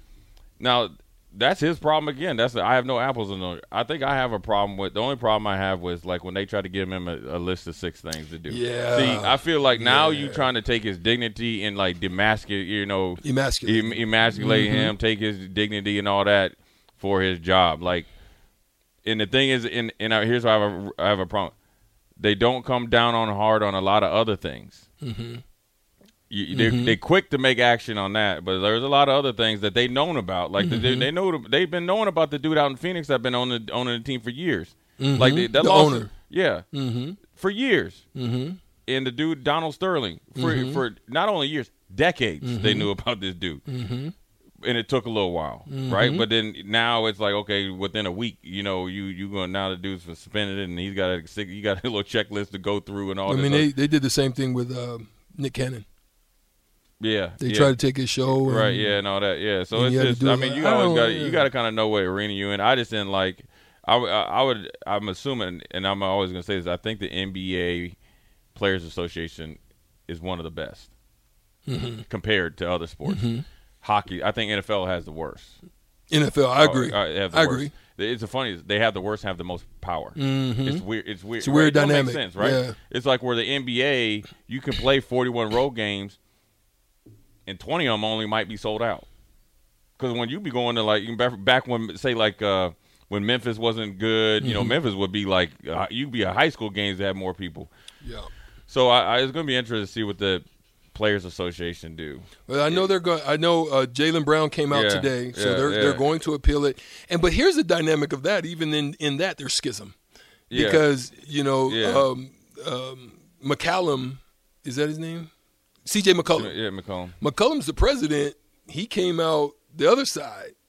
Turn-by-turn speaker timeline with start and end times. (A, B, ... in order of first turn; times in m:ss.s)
0:00.6-0:18.1 A
0:08.5-0:10.5 B
0:13.2-0:14.9 B
0:19.0-0:21.5 A
0:22.2-0:24.8 A
0:25.0-0:25.4 B
0:26.3-0:36.6 A
0:26.5-0:27.0 B
0:30.6-0:31.1 B
0:35.0-0:36.1 B
0:36.7-0:37.2 B
0:37.2-0:38.0 A
0:38.1-0:38.6 B
0:38.9-0:43.6 A
0:40.4-0:40.8 B
0:42.4-0:42.9 B
0:43.7-0:44.1 B
0:44.6-0:53.7 A
0:45.7-0:46.2 B
0:53.2-0:55.8 B
0:57.0-0:57.7 A
0:57.4-0:58.9 B
0:58.3-1:08.0 A
0:59.7-1:01.5 B
1:08.5-1:10.9 A
1:11.7-1:12.0 B
1:12.1-1:15.6 A
1:13.0-1:13.4 B
1:16.1-1:17.7 B
1:16.6-1:26.2 A
1:20.2-1:20.8 B
1:21.4-1:22.8 B
1:27.4-1:29.0 A
1:30.0-1:37.7 A
1:34.4-1:34.8 B
1:38.0-1:38.3 B
1:38.7-1:42.8 A
1:42.5-1:49.9 B
1:44.7-1:46.0 A
1:50.5-1:50.8 A
1:50.5-1:55.3 B
1:51.7-1:52.1 A
1:55.8-1:56.5 B
1:56.3-1:57.2 A
1:57.2-2:00.5 B